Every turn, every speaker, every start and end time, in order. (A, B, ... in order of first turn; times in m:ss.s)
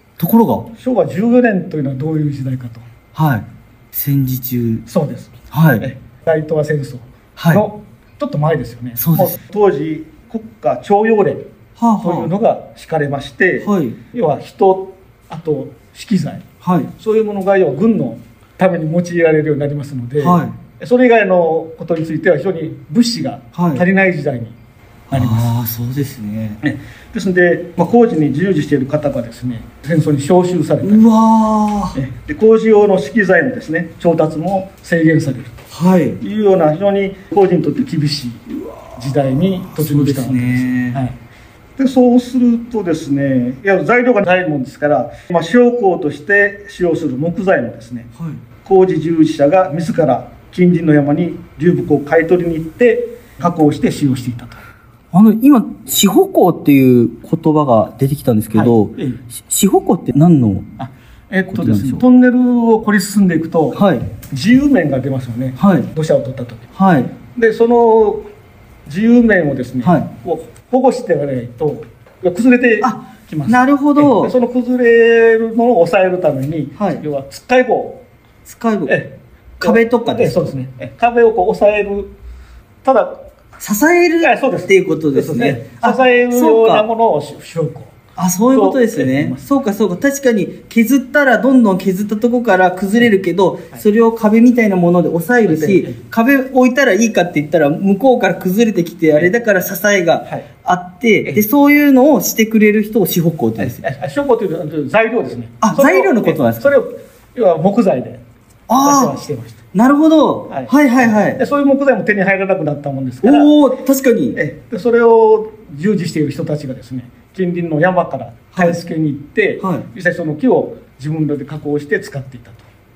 0:00.2-0:00.7 A
0:00.8-0:02.9 B
0:03.2-0:04.8 A
0:04.9-0:11.5 B
0:05.5-0:05.9 A
0:07.4-0:07.6 A
0:09.0-0:09.4 A
0:11.8-0:12.3 A
0:12.0-0:24.6 B
0:13.6-0:14.0 A
0:16.6-0:16.9 A
0:20.2-0:20.6 A
0:23.5-0:23.8 A
0:25.1-0:26.6 A
0:25.1-0:25.5 B
0:26.6-0:31.0 B
0:30.8-0:32.0 A
0:31.9-0:35.7 B
0:35.7-0:36.2 A
0:36.2-0:41.2 B
0:38.5-0:41.0 A
0:41.8-0:48.1 B
0:48.6-0:54.6 B
0:55.1-1:00.7 A
0:58.5-0:59.2 B
1:00.8-1:06.7 B
1:01.5-1:02.0 A
1:03.7-1:04.1 A
1:05.6-1:05.9 A
1:06.8-1:07.1 A
1:07.3-1:08.3 B
1:08.9-1:18.0 B
1:09.8-1:10.1 A
1:12.8-1:14.3 A
1:16.8-1:17.0 A
1:18.5-1:19.0 A
1:18.9-1:22.1 B
1:19.6-1:20.5 A
1:22.8-1:23.2 B
1:23.6-1:26.9 A
1:24.2-1:27.9 B
1:28.2-1:43.8 A
1:28.5-1:29.4 B
1:35.4-1:36.0 B
1:43.6-1:48.2 B
1:45.6-1:46.7 A
1:48.7-1:49.2 A
1:48.8-1:49.6 B
1:49.7-1:51.4 A
1:50.5-1:53.5 B
1:53.2-1:54.4 A
1:54.3-2:02.7 B
1:58.5-1:58.8 A
1:59.6-1:59.9 A